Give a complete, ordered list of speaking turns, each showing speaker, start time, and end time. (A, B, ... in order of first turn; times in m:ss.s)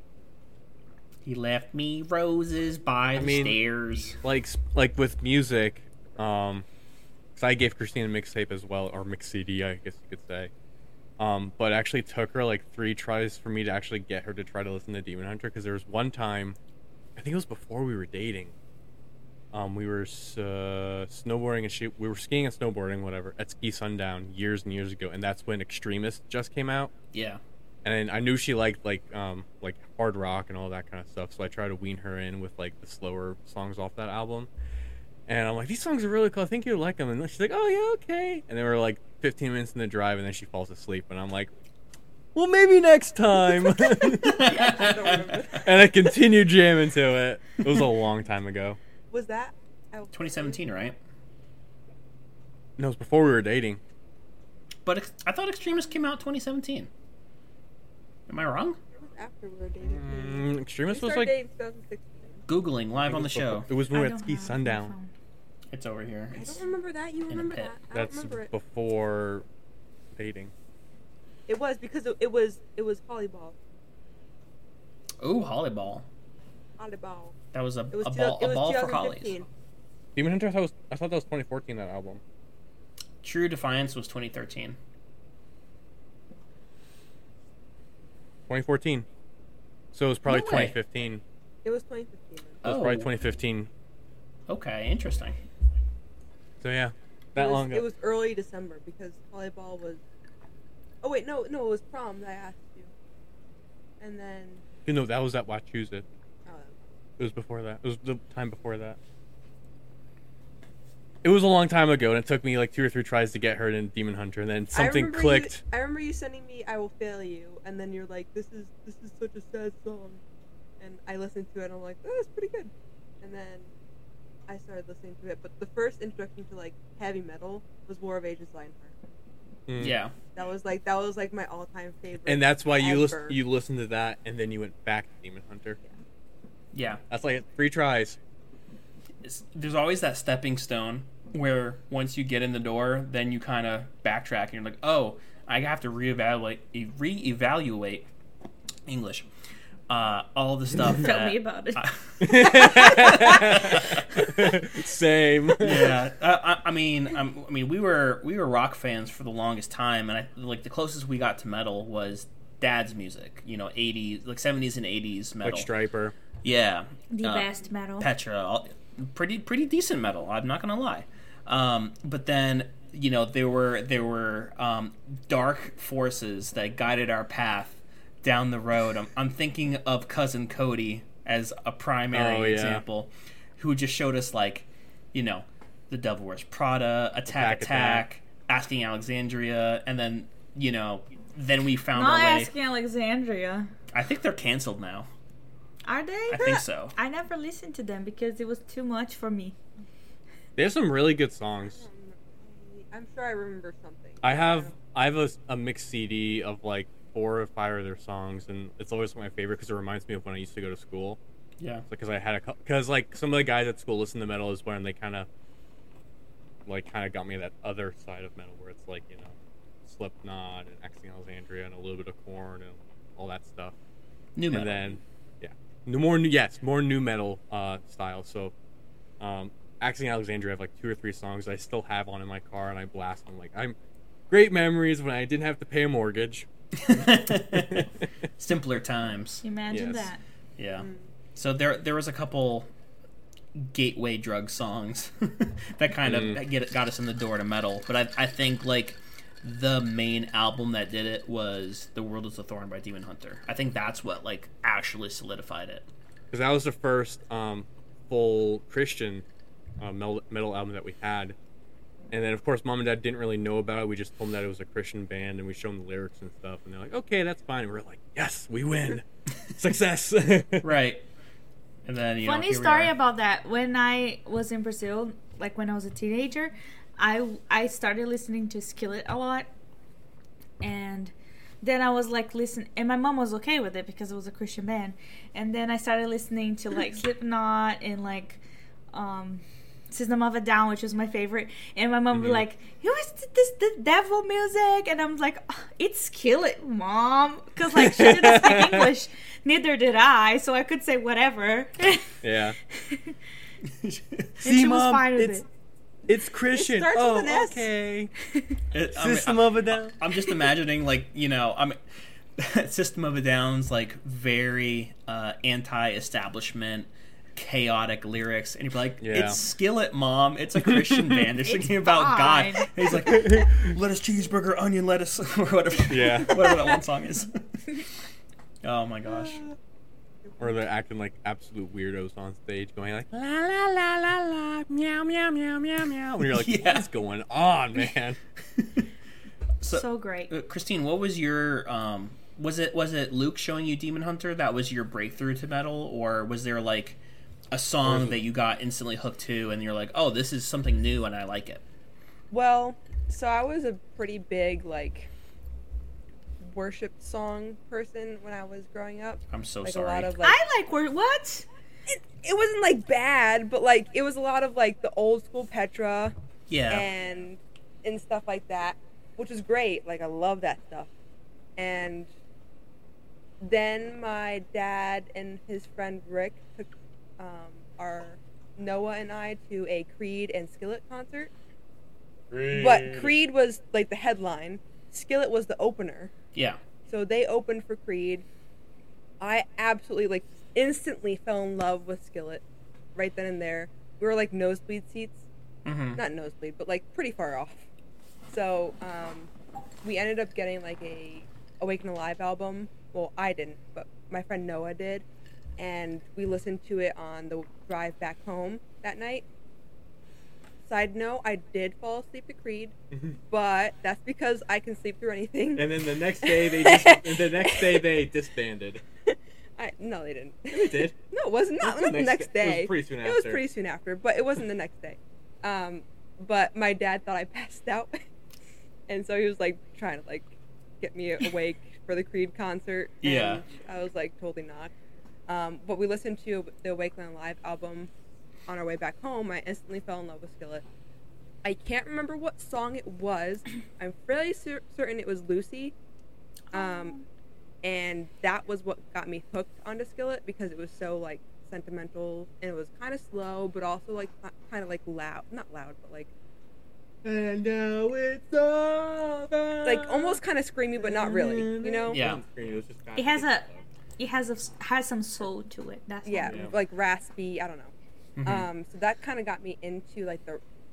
0:01.2-0:04.2 A
0:03.1-0:03.6 B
0:04.2-0:06.6 B
0:07.4-0:10.5 B
0:11.2-0:16.6 B
0:17.2-0:18.5 B
0:19.5-0:26.9 B
0:27.1-0:27.4 A
0:27.8-0:34.5 B
0:35.3-0:41.5 B
0:42.3-0:44.6 B
0:44.0-0:45.6 A
0:44.4-0:45.9 C
0:45.5-0:48.8 B
0:49.1-0:50.6 C
0:50.1-0:51.0 A
0:52.8-0:53.8 B
0:54.8-0:56.9 A
0:58.3-0:58.8 A
0:59.0-1:02.4 C
0:59.8-1:01.3 B
1:02.5-1:03.7 A
1:03.0-1:04.9 B
1:03.9-1:05.1 D
1:05.7-1:06.6 A
1:06.3-1:08.5 C
1:07.3-1:07.7 A
1:07.9-1:09.4 B
1:10.1-1:10.5 B
1:11.5-1:13.6 C
1:15.2-1:16.0 A
1:16.8-1:17.3 C
1:17.5-1:19.3 A
1:17.9-1:19.5 C
1:20.1-1:22.2 B
1:23.2-1:24.8 A
1:28.5-1:29.1 B
1:29.9-1:31.2 B
1:30.2-1:30.8 A
1:31.6-1:32.6 C
1:32.6-1:33.1 A
1:32.6-1:33.7 B
1:34.5-1:35.4 A
1:36.6-1:37.8 B
1:37.4-1:40.0 C
1:41.0-1:42.9 C
1:44.0-1:44.6 C
1:44.8-1:46.0 B
1:46.4-1:46.8 C
1:47.2-1:49.0 B
1:51.2-1:55.6 B
1:54.7-2:00.2 C
2:00.8-2:03.7 C
2:04.5-2:09.0 C
2:09.7-2:10.0 B
2:09.8-2:10.1 A
2:10.3-2:13.4 C
2:12.2-2:15.8 B
2:16.7-2:17.0 A
2:17.1-2:18.2 B
2:19.2-2:28.1 A
2:28.8-2:29.3 A
2:29.9-2:34.5 A
2:30.9-2:31.8 D
2:32.2-2:36.0 B
2:35.6-2:45.7 A
2:45.4-2:46.1 B
2:46.4-2:47.5 A
2:47.1-2:48.1 D
2:48.0-3:12.5 A
3:02.1-3:02.8 B
3:07.3-3:08.0 B
3:11.9-3:13.7 D
3:13.9-3:15.1 A
3:15.8-3:19.6 D
3:16.3-3:16.9 A
3:20.6-3:21.8 B
3:21.6-3:24.7 C
3:24.2-3:31.2 B
3:31.6-3:31.8 A
3:31.9-3:35.3 B
3:36.6-3:43.7 B
3:44.4-3:44.9 A
3:44.5-3:48.5 B
3:49.2-3:53.8 B
3:54.3-3:58.0 B
3:56.8-3:59.4 A
3:59.4-4:00.2 D
3:59.7-4:00.1 B
4:00.6-4:02.7 A
4:00.8-4:01.0 C
4:03.6-4:15.9 A
4:06.0-4:06.4 B
4:16.3-4:19.2 B
4:19.8-4:21.4 B
4:22.1-4:30.7 B
4:30.6-4:31.0 A
4:31.8-4:32.9 A
4:32.2-4:39.5 D
4:40.6-5:02.2 D
4:52.1-4:52.4 B
4:57.7-4:58.9 B
5:02.2-5:02.6 B
5:02.7-5:03.2 D
5:03.6-5:04.3 A
5:04.4-5:05.4 D
5:04.4-5:05.4 B
5:06.1-5:08.1 B
5:06.5-5:07.7 C
5:08.7-5:11.8 A
5:08.9-5:10.0 B
5:12.4-5:27.9 A
5:19.0-5:19.4 B
5:20.7-5:21.3 B
5:21.4-5:22.7 D
5:23.1-5:23.4 B
5:25.9-5:26.6 B
5:28.6-5:29.4 A
5:30.4-5:38.2 B
5:36.3-5:36.9 A
5:38.6-5:38.8 A
5:39.6-5:47.0 A
5:39.7-5:40.3 D
5:47.5-5:51.6 A
5:47.8-5:48.2 B
5:52.3-5:55.1 C
5:56.4-6:00.4 C
5:59.3-6:00.1 A
6:00.2-6:01.5 D
6:01.9-6:06.1 C
6:06.5-6:06.9 A
6:06.7-6:10.9 C
6:11.6-6:12.1 C
6:13.4-6:21.3 C
6:22.3-6:23.2 B
6:22.5-6:26.1 C
6:26.9-6:28.2 C
6:29.2-6:32.4 C
6:32.9-6:35.2 C
6:35.6-6:36.0 A
6:36.0-6:37.6 C
6:38.3-6:39.3 C
6:39.8-6:45.0 C
6:45.6-6:49.2 C
6:50.6-6:52.8 C
6:52.9-6:53.2 B
6:53.3-6:57.8 C
6:55.6-6:58.8 B
6:59.0-7:08.0 C
7:00.5-7:00.9 B
7:01.6-7:03.4 B
7:08.9-7:14.7 C
7:13.0-7:13.4 A
7:15.3-7:17.9 C
7:18.5-7:20.6 C
7:21.4-7:25.7 C
7:26.5-7:27.1 D
7:26.5-7:27.0 C
7:27.6-7:36.1 C
7:37.0-7:40.2 B
7:39.6-7:42.0 C
7:40.8-7:43.6 B
7:41.9-7:42.2 A
7:43.0-7:43.4 D
7:44.0-7:46.5 D
7:46.0-7:47.7 C
7:46.3-7:46.5 B
7:48.2-7:48.5 A
7:48.2-7:50.4 C